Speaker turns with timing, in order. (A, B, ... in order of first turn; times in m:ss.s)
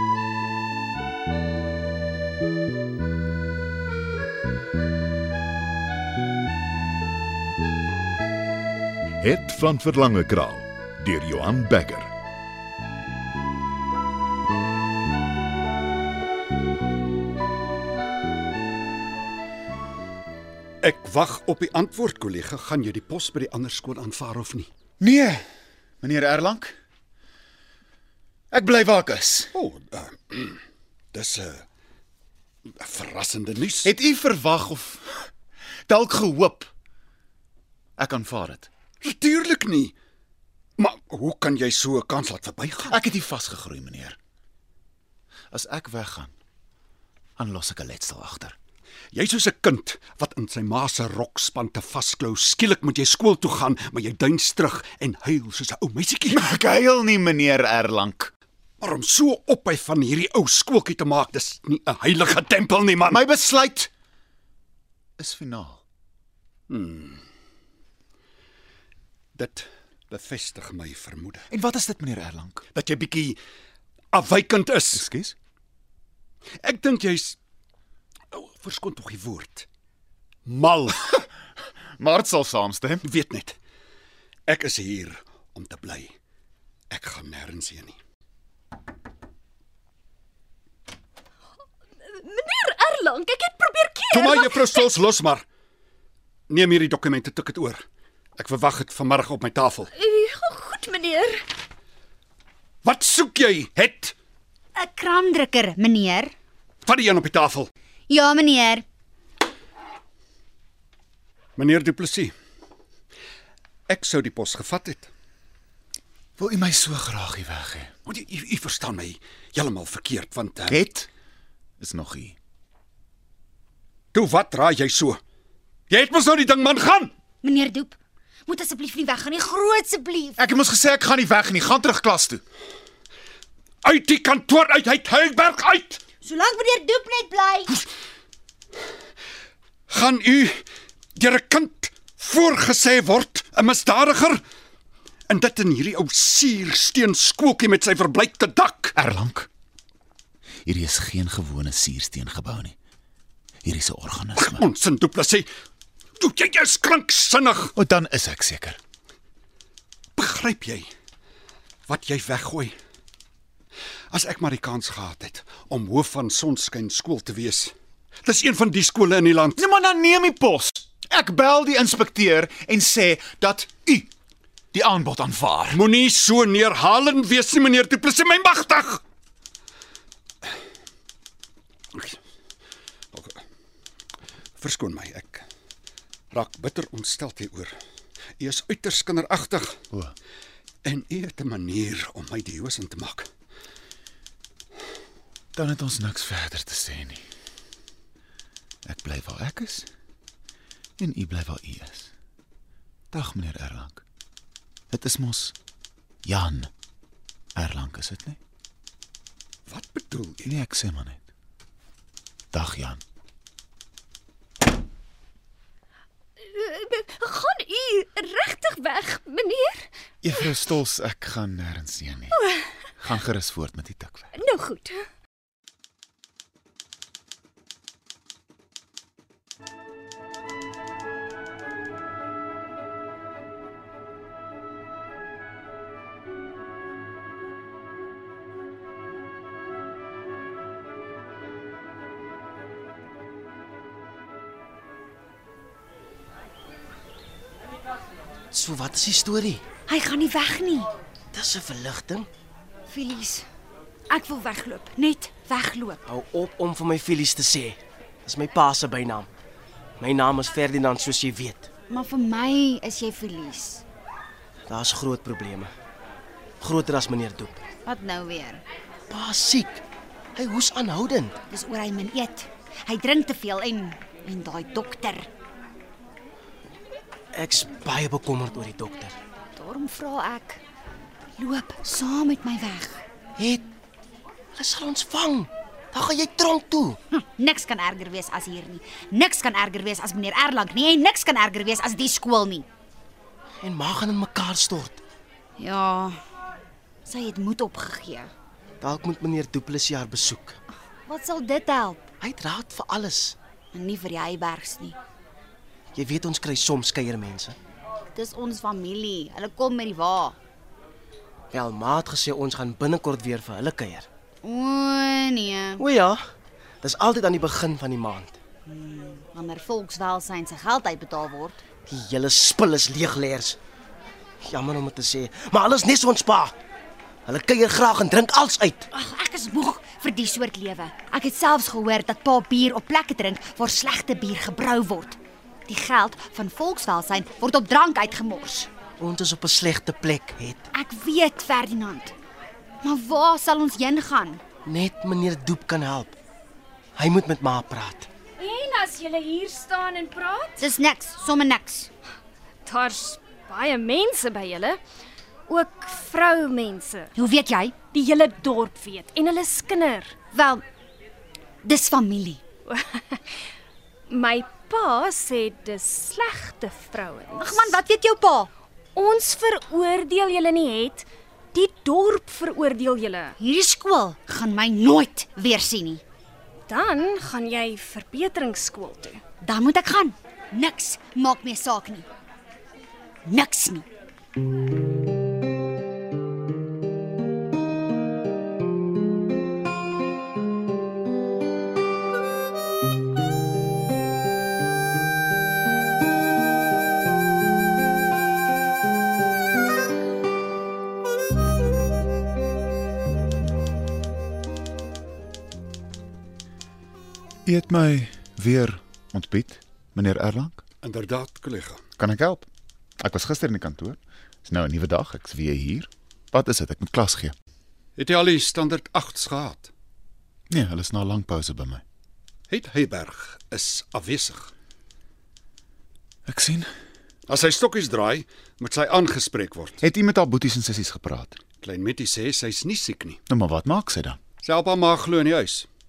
0:09.2-0:12.1 A
0:20.8-0:24.7 B
0:25.0-0:25.4 C
0:26.0-0:26.8 C
0:28.5-0:29.5 C
0:29.5-0:30.6 B
0:31.1-0:31.6 B
0:32.8-0:33.9 B
0:33.8-0:35.3 C
0:35.9-0:36.7 C
0:38.0-0:38.7 C
0:39.0-0:39.9 B
0:40.8-0:43.0 B
0:42.9-0:44.2 C
0:45.5-0:46.3 C
0:47.4-0:48.6 C
0:49.1-0:56.4 B
0:56.3-0:58.3 C
0:58.8-1:03.2 B
1:03.0-1:03.9 C
1:05.2-1:05.8 C
1:06.7-1:07.2 B
1:09.4-1:11.5 B
1:11.5-1:12.7 C
1:12.8-1:13.4 B
1:14.1-1:15.1 B
1:14.9-1:15.4 C
1:16.6-1:17.4 B
1:18.3-1:19.7 B
1:20.5-1:21.2 B
1:22.0-1:23.0 C
1:23.0-1:23.6 B
1:24.5-1:26.2 B
1:26.9-1:28.0 B
1:32.0-1:34.9 D
1:34.1-1:35.4 B
1:36.5-1:37.8 B
1:38.4-1:39.9 B
1:39.9-1:41.4 D
1:42.8-1:44.2 B
1:44.8-1:46.3 E
1:46.8-1:47.7 B
1:48.1-1:48.8 E
1:51.6-1:52.3 B
1:53.9-1:55.1 B
1:56.4-1:57.9 C
1:58.1-2:00.8 B
2:00.7-2:01.1 C
2:01.8-2:02.4 C
2:04.1-2:05.2 B
2:05.9-2:07.1 B
2:07.4-2:10.4 E
2:10.4-2:12.4 C
2:13.8-2:16.0 B
2:16.2-2:17.8 E
2:19.9-2:20.6 B
2:21.2-2:24.4 B
2:25.3-2:28.9 B
2:29.0-2:29.5 C
2:30.6-2:32.8 C
2:33.6-2:34.6 C
2:34.4-2:35.5 B
2:36.2-2:37.7 B
2:37.8-2:38.8 C
2:40.2-2:40.9 B
2:41.9-2:42.7 B
2:44.1-2:47.7 B
2:48.2-2:49.6 B
2:49.6-2:54.1 C
2:54.7-2:55.8 C
2:55.7-2:59.0 B
3:03.1-3:03.4 B
3:04.6-3:05.4 B
3:06.3-3:07.7 B
3:08.4-3:09.8 B
3:10.8-3:13.3 B
3:15.6-3:17.2 C
3:18.8-3:19.9 C
3:21.0-3:22.1 C
3:23.1-3:24.0 C
3:24.9-3:25.6 C
3:26.2-3:26.7 C
3:27.6-3:28.4 C
3:29.7-3:30.5 B
3:30.4-3:31.2 C
3:32.5-3:33.0 C
3:36.4-3:39.9 D
3:40.2-3:42.4 C
3:43.0-3:44.3 C
3:44.4-3:45.0 D
4:08.6-4:09.6 F
4:09.9-4:10.9 E
4:11.3-4:12.2 F
4:12.9-4:13.4 E
4:14.1-4:16.0 E
4:16.3-4:17.7 F
4:18.3-4:19.2 F
4:20.0-4:21.6 F
4:21.9-4:23.8 E
4:24.7-4:25.7 F
4:26.6-4:27.6 F
4:27.8-4:28.6 E
4:29.2-4:29.8 F
4:30.4-4:31.3 F
4:31.5-4:35.3 E
4:37.4-4:39.1 F
4:39.6-4:40.6 E
4:41.4-4:43.0 E
4:44.7-4:46.9 F
4:47.1-4:52.7 E
4:53.8-4:54.9 F
4:55.6-4:56.2 E
4:57.1-4:58.3 E
4:59.0-5:00.5 F
5:01.1-5:02.1 E
5:02.2-5:03.3 F
5:03.7-5:05.0 E
5:06.0-5:07.6 F
5:08.2-5:10.4 E
5:11.6-5:14.0 F
5:14.4-5:15.8 E
5:15.8-5:16.1 F
5:16.9-5:18.3 F
5:18.7-5:21.6 E
5:21.9-5:23.6 F
5:24.5-5:26.5 F
5:27.3-5:28.8 F
5:28.9-5:35.2 E
5:35.7-5:38.7 E
5:39.0-5:40.6 F
5:40.7-5:42.1 E
5:42.8-5:44.4 E
5:44.7-5:46.1 F
5:47.0-5:48.1 F
5:48.4-5:50.7 D
5:50.6-5:51.9 E
5:52.6-5:54.8 D
5:55.5-5:57.1 D
5:57.2-5:57.8 E
5:57.9-6:00.2 D
6:00.3-6:00.6 E
6:01.6-6:02.4 E
6:02.7-6:03.2 D
6:04.1-6:07.8 D
6:07.4-6:08.5 E
6:09.0-6:13.4 D
6:13.4-6:16.0 E
6:16.7-6:19.2 D
6:19.4-6:22.1 E
6:23.3-6:23.8 E
6:47.5-6:50.6 C
6:50.8-6:51.8 B
6:52.0-6:52.5 C
6:53.0-6:57.4 C
6:58.0-6:59.7 B
7:00.5-7:01.8 C
7:02.5-7:04.5 B
7:06.3-7:06.7 C
7:07.3-7:09.8 B
7:09.8-7:11.4 C
7:11.6-7:13.2 B
7:13.3-7:14.2 C
7:14.4-7:15.7 B